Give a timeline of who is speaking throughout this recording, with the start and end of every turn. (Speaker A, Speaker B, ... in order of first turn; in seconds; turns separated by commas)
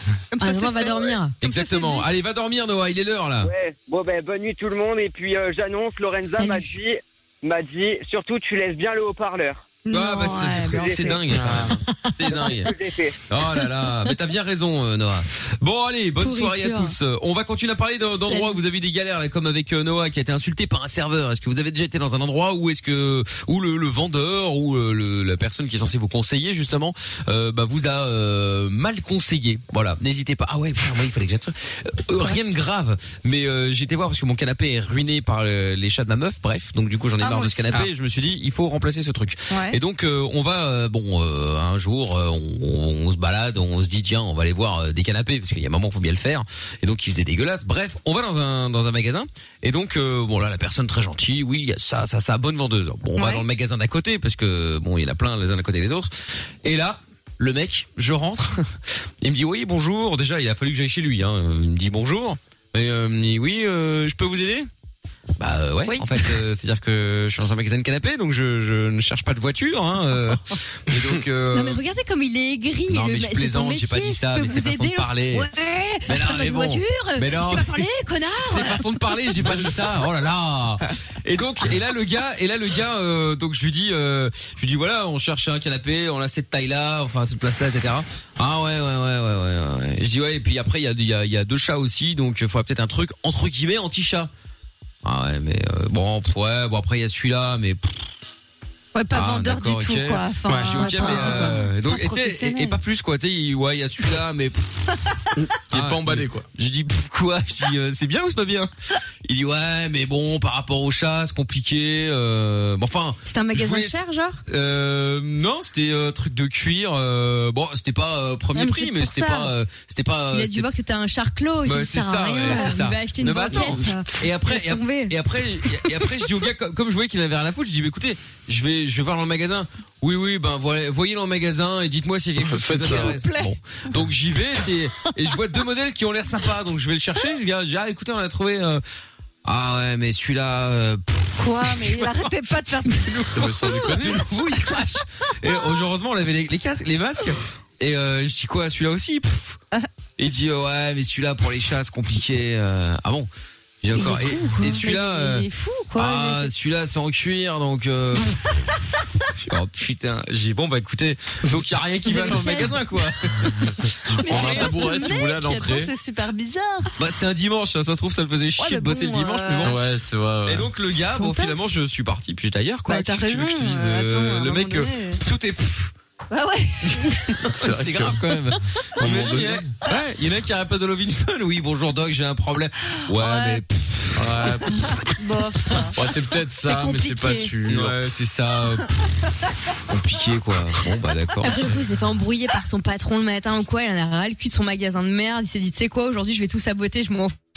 Speaker A: 0.3-2.0, Speaker B: 0.4-1.4, Speaker C: 1.4-3.5, Speaker D: 3.4-9.7, Speaker B: 6.2-6.7, Speaker A: 9.9-11.2, Speaker C: 9.9-12.7, Speaker D: 10.7-11.2, Speaker E: 11.3-11.8, Speaker D: 12.3-13.2, Speaker C: 13.3-56.1, Speaker B: 16.2-17.0, Speaker B: 18.3-18.6, Speaker A: 37.2-37.9, Speaker A: 39.5-39.8, Speaker A: 53.2-53.5, Speaker C: 56.6-58.7, Speaker C: 59.2-64.7, Speaker C: 65.4-71.8, Speaker A: 65.9-66.3, Speaker B: 71.5-79.0, Speaker C: 72.9-75.5, Speaker C: 76.1-77.9, Speaker C: 78.4-94.3, Speaker C: 95.0-98.0, Speaker A: 98.9-102.8, Speaker C: 99.1-108.7, Speaker E: 100.5-100.8, Speaker B: 100.8-101.6, Speaker E: 105.7-106.5, Speaker C: 109.2-120.7, Speaker B: 113.3-114.4, Speaker B: 118.5-119.5, Speaker B: 120.3-125.2, Speaker C: 121.7-138.8, Speaker E: 132.4-133.2, Speaker A: 132.8-133.5, Speaker C: 139.4-149.6, Speaker A: 141.4-143.3, Speaker E: 143.3-144.3, Speaker C: 150.2-153.3, Speaker C: 153.8-158.7, Speaker A: 153.9-156.5, Speaker B: 153.9-154.8, Speaker C: 159.4-164.8, Speaker A: 162.1-162.7, Speaker E: 162.2-162.7, Speaker E: 163.5-165.9, Speaker A: 164.2-166.9, Speaker C: 167.0-169.8, Speaker A: 168.6-169.8, Speaker E: 169.6-170.7, Speaker C: 170.4-175.9, Speaker A: 171.1-171.5, Speaker A: 172.9-175.2, Speaker A: 176.3-177.2, Speaker C: 176.8-184.5, Speaker E: 177.5-178.2, Speaker E: 179.0-179.7, Speaker A: 179.0-179.4, Speaker A: 183.1-183.6, Speaker E: 184.2-184.8, Speaker A: 185.1-186.0, Speaker E: 185.9-188.0, Speaker A: 186.7-187.5, Speaker C: 187.7-189.0, Speaker C: 189.8-191.8, Speaker B: 191.4-197.4